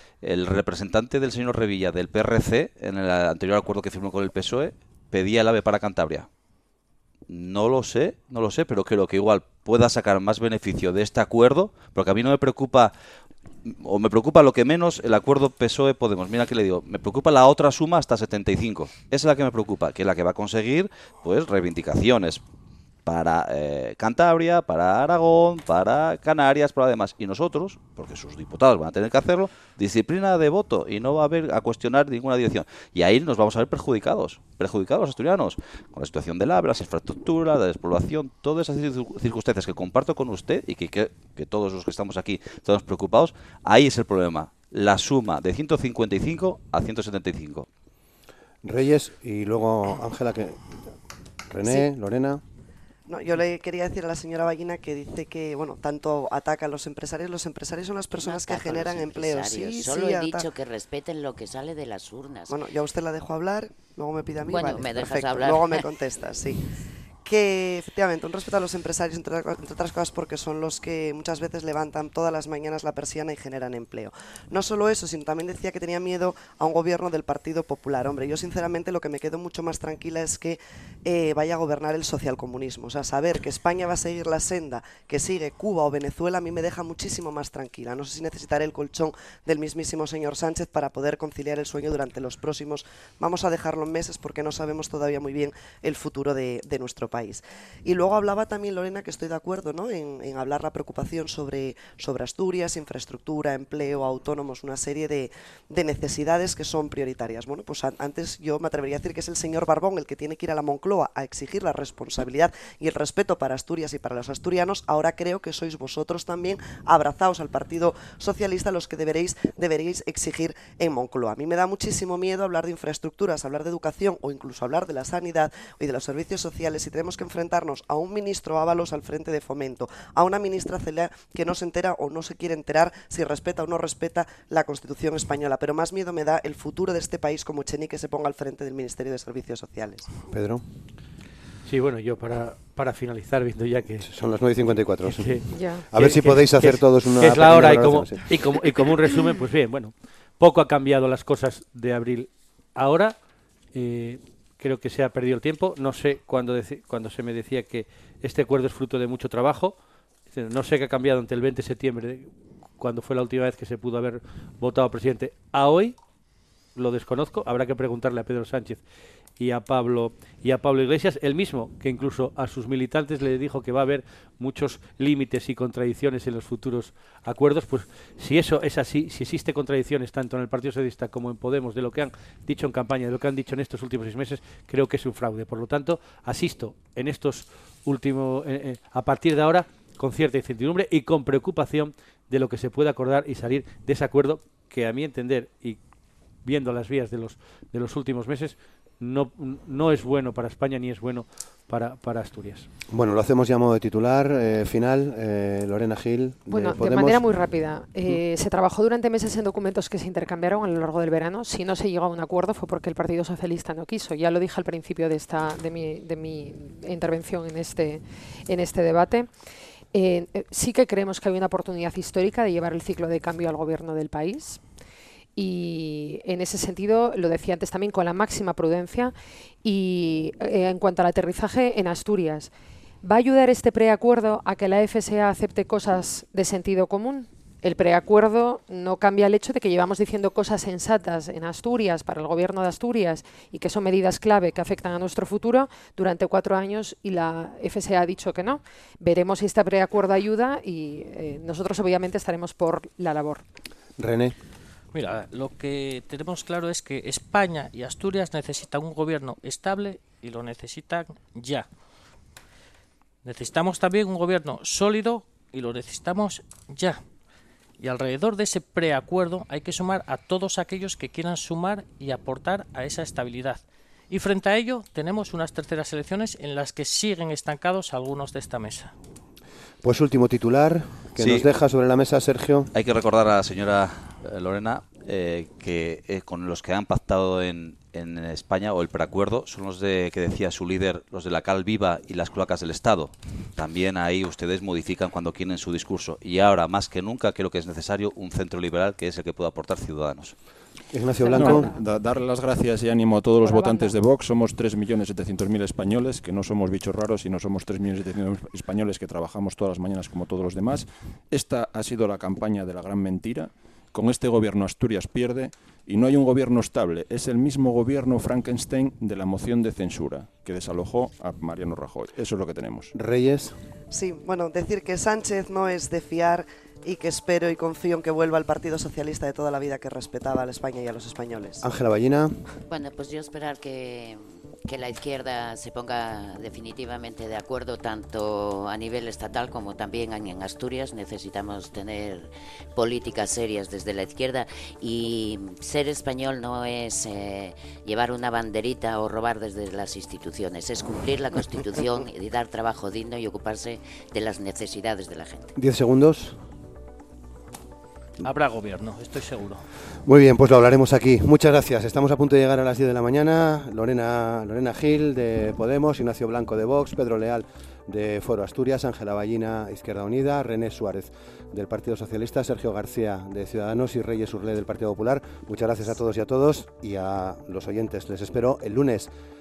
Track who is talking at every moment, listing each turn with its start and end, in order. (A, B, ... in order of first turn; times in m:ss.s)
0:00.2-0:06.3 A
0:07.3-0:12.9 A
0:13.6-0:22.4 A
0:23.0-0:47.7 A
0:48.6-0:50.9 B
0:51.5-0:52.4 B
0:53.1-1:00.5 C
0:58.2-1:02.6 D
1:02.5-1:06.7 C
1:04.4-1:05.9 D
1:07.2-2:20.1 C
2:20.3-2:20.6 B
2:21.6-2:24.1 E
2:24.0-2:28.3 B
2:25.0-2:33.2 E
2:25.5-2:25.8 F
2:33.7-2:39.8 E
2:40.3-2:46.0 E
2:46.7-2:48.8 E
2:49.4-3:15.8 E
3:16.4-3:22.7 E
3:22.9-3:27.2 B
3:26.5-3:39.3 F
3:39.9-3:44.6 F
3:45.4-3:52.5 F
3:53.0-4:13.4 F
4:14.0-4:14.3 B
4:14.9-4:21.7 G
4:23.2-4:27.0 G
4:27.8-4:38.9 G
4:39.8-4:42.7 B
4:41.2-4:41.5 A
4:42.7-5:00.4 A
5:00.9-5:01.7 B
5:01.2-5:01.8 F
5:01.3-5:22.9 H
5:03.4-5:03.9 F
5:22.9-5:23.6 B
5:23.9-5:31.6 C
5:31.6-5:32.4 B
5:32.6-5:55.5 D
5:55.6-5:56.4 B
5:58.2-5:59.6 G
6:00.0-6:19.1 B